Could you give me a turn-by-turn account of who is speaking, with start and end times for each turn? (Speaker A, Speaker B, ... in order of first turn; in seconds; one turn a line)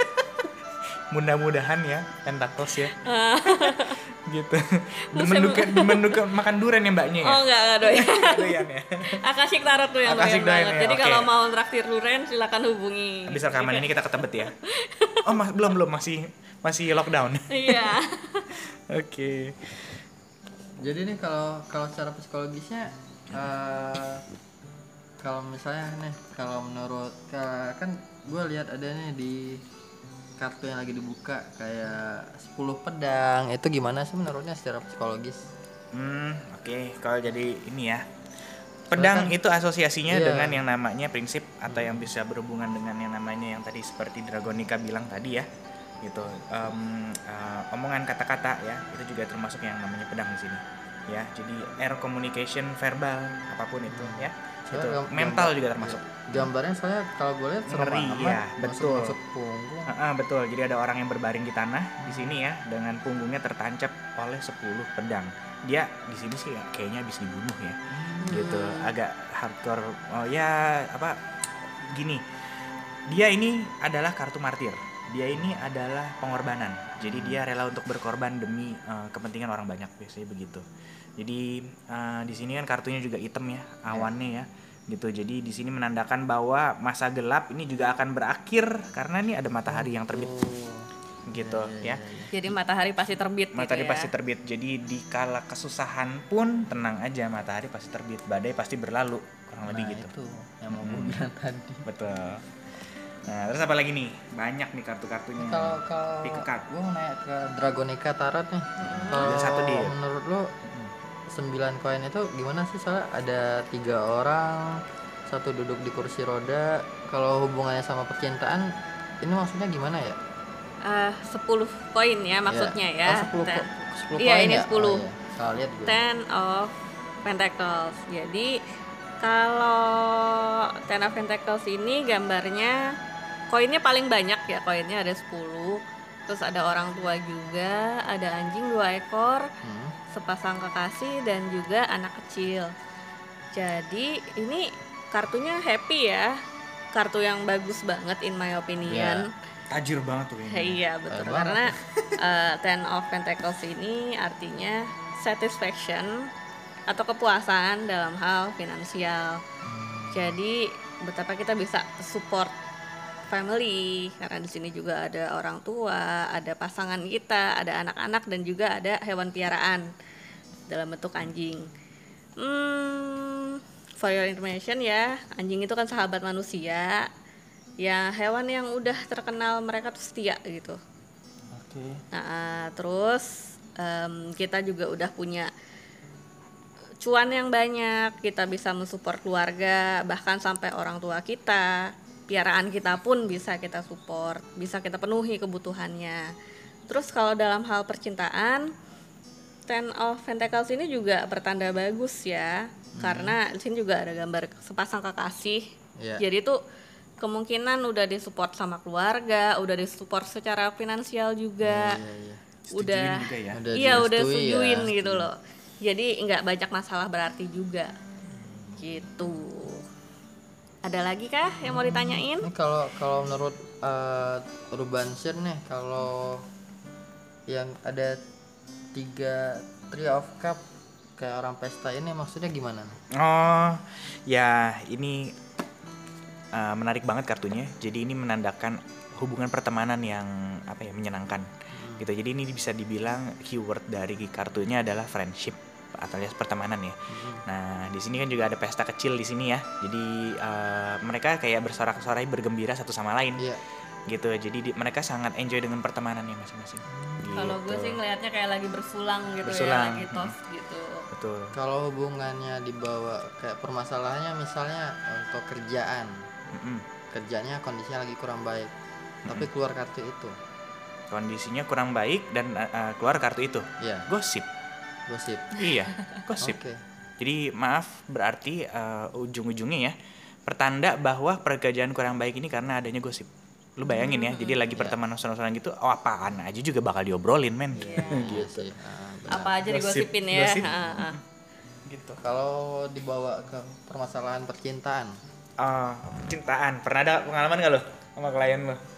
Speaker A: 1.1-9.2
Speaker B: 2.9-4.0
Speaker B: 5.1-6.2
Speaker B: 7.2-15.2
Speaker A: 10.1-11.3
Speaker A: 13.3-14.5
Speaker A: 15.2-18.0
Speaker B: 17.5-18.5
Speaker A: 18.5-20.0
Speaker C: 20.8-24.2
Speaker C: 25.2-29.6
Speaker C: 30.4-35.4
Speaker A: 35.9-38.0
Speaker A: 38.9-45.5
Speaker C: 38.9-39.3
Speaker C: 40.1-40.6
Speaker C: 41.7-42.0
Speaker A: 46.0-56.5
Speaker C: 53.9-59.9
Speaker A: 57.7-59.1
Speaker A: 59.9-72.2
Speaker C: 62.0-62.4
Speaker C: 67.9-68.4
Speaker B: 68.2-68.9
Speaker A: 73.1-80.6
Speaker C: 77.1-77.4
Speaker A: 81.2-90.3
Speaker C: 89.7-92.3
Speaker A: 91.3-92.0
Speaker B: 92.3-94.1
Speaker A: 93.5-100.1
Speaker C: 99.7-101.9
Speaker A: 100.7-101.2
Speaker A: 101.9-106.7
Speaker C: 105.4-110.4
Speaker A: 108.8-109.9
Speaker B: 108.8-109.3
Speaker C: 111.3-114.7
Speaker C: 115.3-118.7
Speaker C: 119.2-120.2
Speaker B: 120.8-125.0
Speaker C: 122.5-126.0
Speaker B: 125.9-126.7
Speaker B: 127.2-128.5
Speaker B: 129.2-132.8
Speaker B: 133.5-139.5
Speaker C: 139.6-139.9
Speaker B: 140.1-142.7
Speaker B: 143.5-146.3
Speaker B: 146.9-149.3
Speaker C: 148.9-149.2
Speaker A: 149.7-150.8
Speaker B: 150.5-156.2
Speaker C: 151.1-151.8
Speaker B: 156.9-159.4
Speaker C: 159.7-160.4
Speaker B: 160.1-162.5
Speaker B: 163.3-169.8
Speaker B: 170.7-171.7
Speaker B: 172.4-177.1
Speaker B: 177.8-180.8
Speaker A: 181.5-182.0
Speaker B: 182.1-185.5
Speaker B: 187.0-196.2
Speaker B: 196.9-198.6
Speaker B: 199.7-205.6
Speaker C: 203.0-203.4
Speaker B: 206.2-206.6
Speaker B: 207.2-212.0
Speaker C: 211.6-212.4
Speaker A: 212.7-213.6
Speaker B: 212.8-213.2
Speaker C: 213.5-215.3
Speaker B: 213.7-217.9
Speaker C: 218.7-219.2
Speaker B: 218.8-219.8
Speaker B: 220.8-222.5
Speaker C: 221.7-226.4
Speaker C: 227.5-228.2
Speaker C: 228.9-230.6
Speaker C: 231.2-233.0
Speaker A: 233.2-235.3
Speaker A: 236.5-253.5
Speaker C: 241.7-242.1
Speaker C: 247.1-247.4
Speaker A: 254.1-258.0
Speaker C: 256.9-257.4
Speaker B: 257.4-261.0
Speaker A: 259.4-260.3
Speaker A: 261.1-261.5
Speaker C: 261.5-266.1
Speaker A: 266.5-266.8
Speaker C: 267.1-268.7
Speaker C: 269.2-270.3
Speaker A: 271.1-274.5
Speaker C: 273.8-274.1
Speaker C: 275.1-275.5
Speaker A: 275.6-276.6
Speaker C: 276.4-276.8
Speaker A: 277.2-279.9
Speaker A: 280.4-288.7
Speaker B: 283.9-284.6
Speaker C: 284.7-285.0
Speaker B: 287.8-288.4
Speaker C: 287.8-289.6
Speaker B: 289.3-291.1
Speaker A: 289.6-291.2
Speaker C: 290.6-291.0
Speaker A: 291.9-292.2
Speaker C: 292.2-295.1
Speaker A: 295.6-298.8